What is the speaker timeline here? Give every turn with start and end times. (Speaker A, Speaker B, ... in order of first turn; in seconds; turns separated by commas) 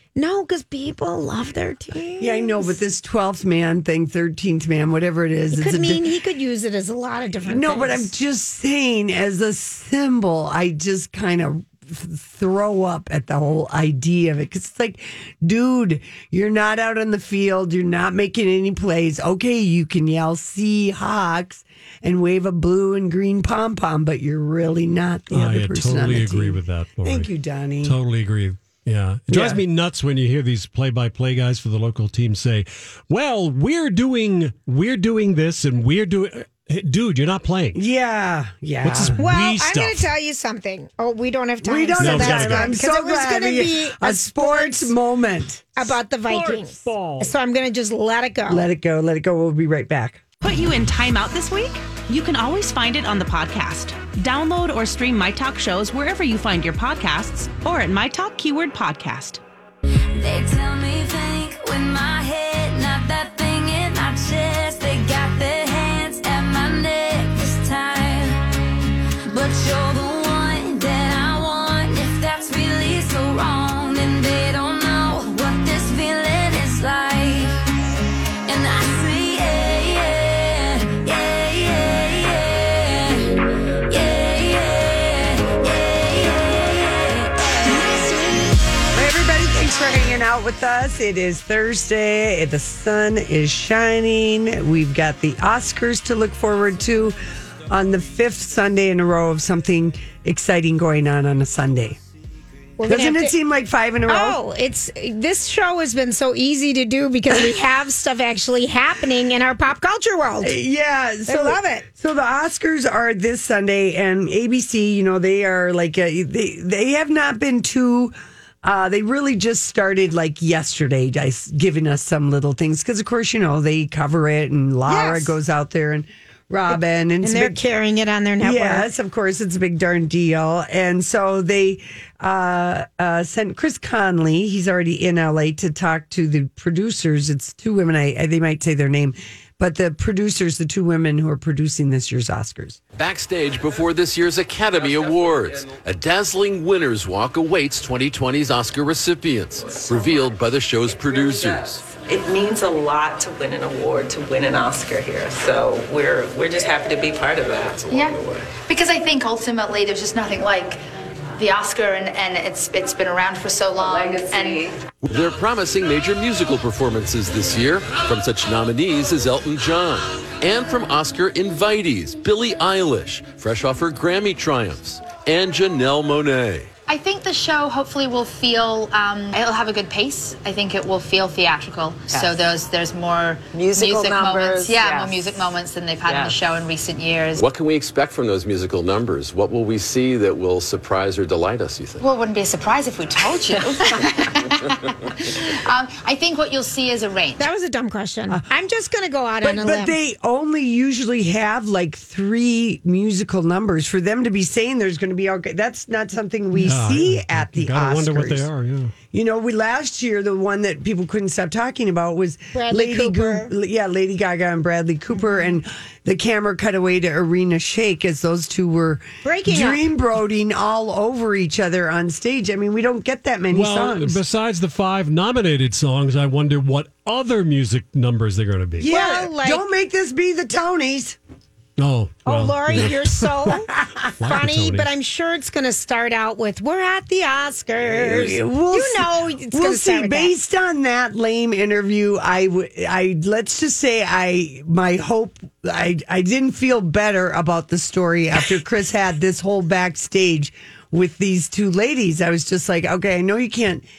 Speaker A: 0.1-2.7, Speaker B: 2.2-6.0, Speaker A: 5.5-8.1, Speaker B: 7.5-28.0, Speaker C: 25.3-27.3, Speaker C: 27.8-37.8, Speaker B: 29.3-29.6, Speaker B: 37.7-39.2, Speaker C: 38.8-40.1, Speaker A: 39.2-44.9, Speaker B: 41.6-45.7, Speaker C: 42.0-42.7, Speaker A: 45.8-48.6, Speaker C: 46.3-47.3, Speaker B: 48.5-50.2, Speaker D: 50.4-59.4, Speaker E: 60.1-77.6, Speaker E: 78.5-88.6, Speaker B: 88.9-102.0, Speaker A: 102.8-103.3, Speaker B: 102.9-104.4, Speaker A: 104.1-110.6, Speaker B: 110.4-127.6, Speaker A: 111.3-111.8, Speaker A: 124.9-125.3, Speaker A: 126.7-128.9, Speaker B: 128.4-142.8, Speaker F: 143.0-151.8, Speaker G: 151.9-158.4, Speaker H: 157.9-160.8, Speaker H: 161.4-164.7, Speaker G: 163.8-164.8, Speaker F: 165.0-176.7, Speaker H: 176.9-187.4, Speaker G: 182.1-182.4, Speaker G: 183.5-185.5, Speaker G: 186.0-186.4, Speaker F: 187.4-192.0, Speaker H: 192.0-197.5, Speaker G: 193.5-193.9, Speaker A: 197.4-199.9, Speaker B: 199.4-208.5, Speaker C: 206.6-208.9, Speaker B: 209.1-224.2, Speaker A: 212.5-213.5, Speaker A: 219.2-219.9, Speaker C: 223.5-228.9, Speaker B: 228.8-231.2, Speaker A: 228.8-229.6, Speaker C: 231.8-233.3, Speaker A: 232.2-233.7, Speaker C: 234.2-234.9, Speaker A: 234.2-240.3, Speaker B: 237.9-253.8